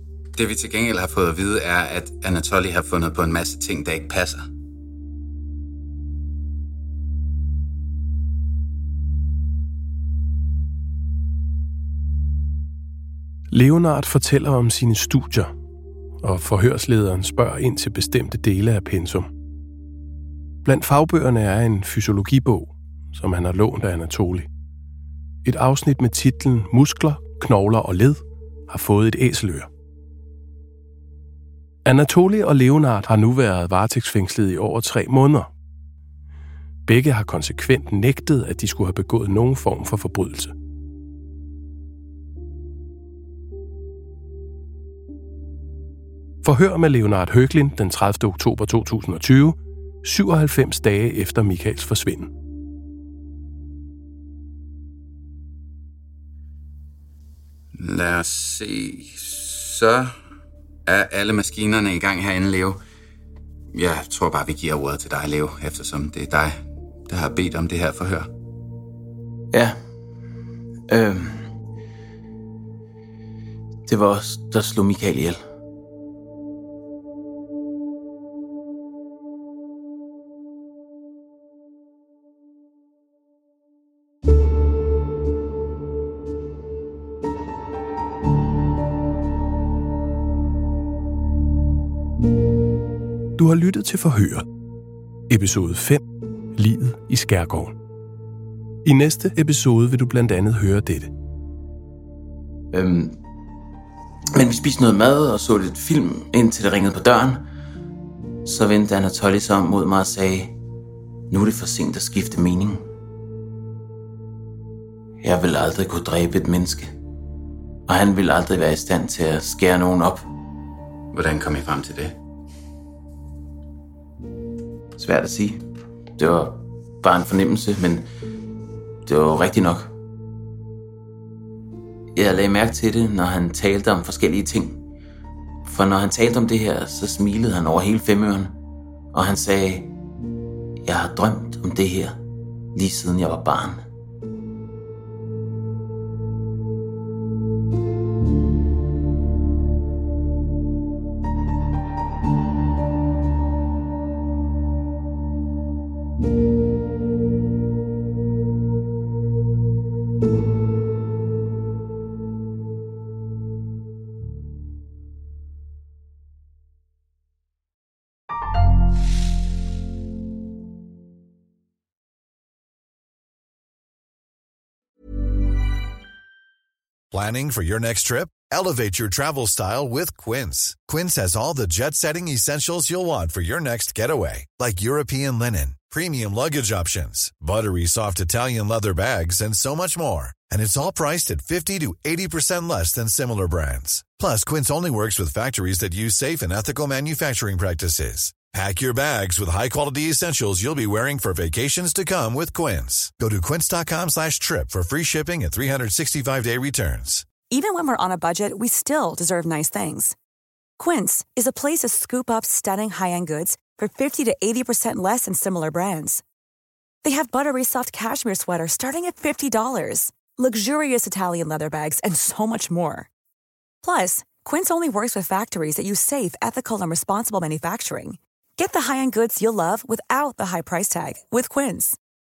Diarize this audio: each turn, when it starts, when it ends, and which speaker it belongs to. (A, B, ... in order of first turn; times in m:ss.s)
0:00.4-0:04.5 A
0:13.5-0:15.5 B
0:16.2-0:19.3 B
0:20.6-0:24.5 B
0:25.4-0:29.7 B
0:31.9-0:35.5 B
0:36.9-0:40.5 B
0:46.4-0:52.3 B
0:57.8-1:00.1 A
1:00.9-1:02.8 A
1:03.7-1:08.3 A
1:10.9-1:11.5 C
1:13.9-1:15.4 C
1:33.4-1:34.5 B
1:35.3-1:36.0 B
1:36.6-1:37.8 B
1:38.8-1:41.1 B
1:42.7-1:43.2 C
1:44.4-1:47.4 C
1:48.4-1:50.6 C
1:51.3-1:52.8 C
1:55.2-1:56.9 C
1:57.9-2:00.3 C
2:01.1-2:02.2 A
2:05.0-2:05.6 C
2:06.2-2:08.1 C
2:09.1-2:09.9 C
2:12.2-2:14.8 C
2:15.6-2:18.6 C
2:19.1-2:19.9 C
2:20.8-2:22.2 C
2:22.8-2:23.8 C
2:57.1-3:27.3 D
3:27.5-3:30.2 E
3:30.8-3:36.2 E
3:37.0-3:43.1 E
3:43.8-3:52.0 E